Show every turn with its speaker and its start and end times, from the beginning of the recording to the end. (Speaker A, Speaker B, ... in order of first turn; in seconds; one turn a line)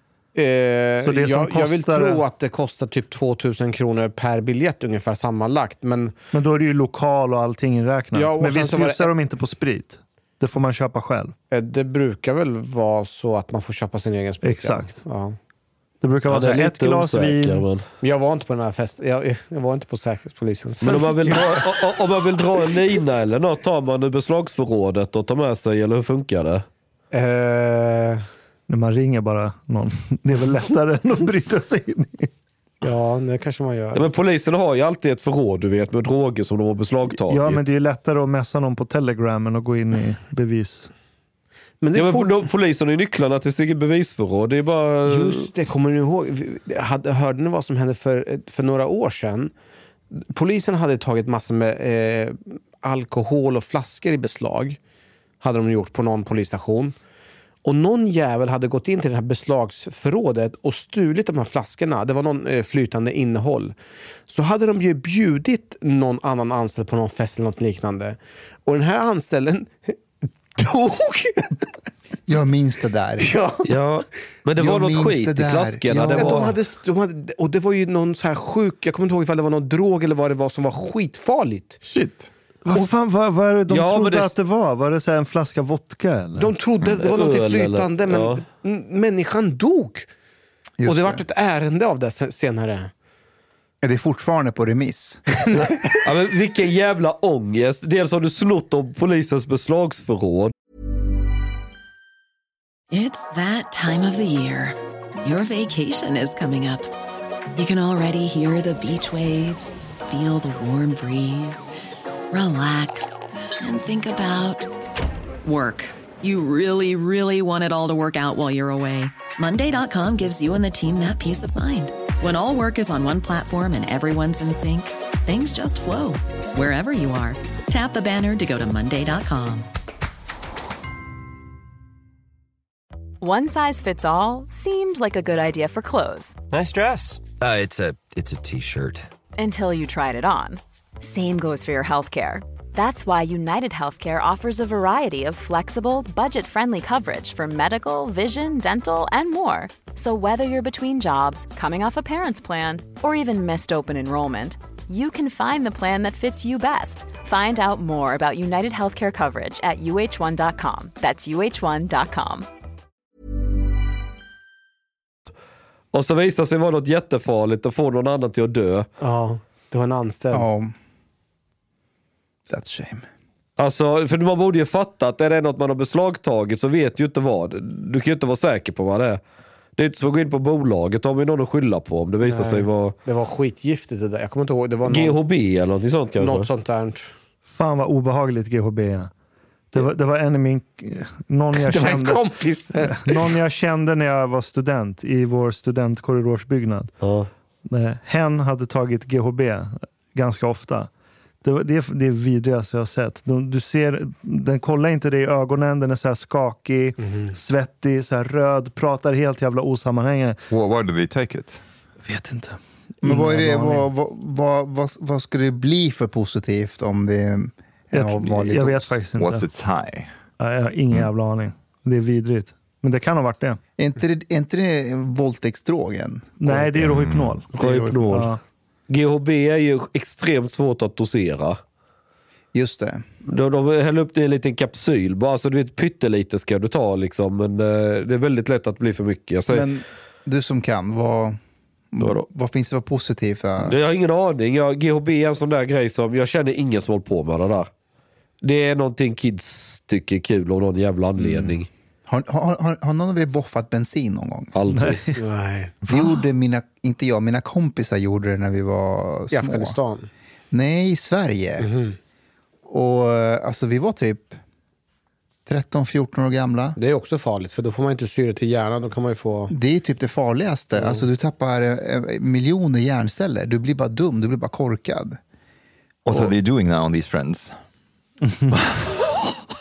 Speaker A: 0.3-6.1
Speaker B: 1.0-2.2
Speaker B: 6.3-11.3
Speaker A: 8.1-9.1
Speaker A: 11.5-15.4
Speaker B: 14.4-14.9
Speaker B: 16.0-17.7
Speaker C: 16.3-17.8
Speaker A: 18.0-22.0
Speaker C: 20.8-26.6
Speaker A: 27.1-28.2
Speaker B: 28.7-32.3
Speaker A: 32.8-34.1
Speaker C: 33.9-37.7
Speaker B: 37.3-40.9
Speaker A: 41.8-42.5
Speaker C: 41.9-45.5
Speaker A: 45.1-49.5
Speaker A: 50.1-54.8
Speaker A: 55.4-57.0
Speaker A: 57.6-63.8
Speaker A: 64.3-70.0
Speaker A: 70.5-71.7
Speaker D: 72.3-73.3
Speaker A: 73.2-73.7
Speaker C: 73.7-76.5
Speaker D: 74.6-76.5
Speaker A: 76.2-81.8
Speaker E: 81.9-82.3
Speaker B: 82.7-86.5
Speaker C: 83.7-84.3
Speaker A: 86.4-90.1
Speaker C: 87.0-88.4
Speaker D: 90.8-91.2
Speaker A: 90.8-92.9
Speaker D: 93.8-95.2
Speaker A: 95.4-95.7
Speaker C: 95.7-100.5
Speaker F: 102.9-106.9
Speaker F: 107.5-111.7
Speaker F: 112.3-114.7
Speaker F: 115.4-129.7
Speaker G: 133.2-136.4
Speaker H: 136.5-139.1
Speaker G: 139.4-162.5
Speaker C: 165.9-168.9
Speaker A: 169.0-170.5
Speaker D: 170.3-170.7
Speaker D: 172.5-173.1
Speaker C: 173.6-179.2
Speaker C: 179.8-182.9
Speaker A: 182.2-185.2
Speaker C: 184.9-186.5
Speaker A: 186.2-187.1
Speaker B: 187.5-189.1
Speaker B: 189.7-192.2
Speaker A: 191.6-193.3
Speaker B: 192.8-196.9
Speaker C: 197.0-197.3
Speaker B: 197.7-200.9
Speaker B: 201.4-210.4
Speaker A: 207.0-207.3
Speaker E: 210.5-211.6
Speaker B: 212.1-213.9
Speaker D: 213.0-219.0
Speaker B: 217.9-219.5
Speaker E: 219.2-220.1
Speaker B: 220.4-223.6
Speaker D: 223.8-226.9
Speaker B: 226.4-227.5
Speaker E: 226.8-227.4
Speaker D: 227.5-228.3
Speaker C: 227.6-228.3
Speaker B: 228.1-228.4
Speaker C: 228.9-231.6
Speaker D: 232.5-233.0
Speaker C: 233.3-239.7
Speaker D: 239.5-241.4
Speaker D: 241.9-243.8
Speaker C: 242.0-242.2
Speaker C: 243.6-247.7
Speaker C: 248.4-251.7
Speaker D: 251.2-254.5
Speaker C: 254.5-255.0
Speaker B: 254.7-255.2
Speaker A: 255.2-255.7
Speaker E: 255.8-256.2
Speaker D: 255.9-259.8
Speaker A: 259.3-260.1
Speaker D: 260.5-261.7
Speaker A: 261.6-262.0
Speaker D: 262.7-264.4
Speaker D: 265.5-266.8
Speaker A: 266.8-269.5
Speaker D: 269.5-275.2
Speaker A: 270.8-271.0
Speaker E: 276.1-277.5
Speaker E: 278.5-279.1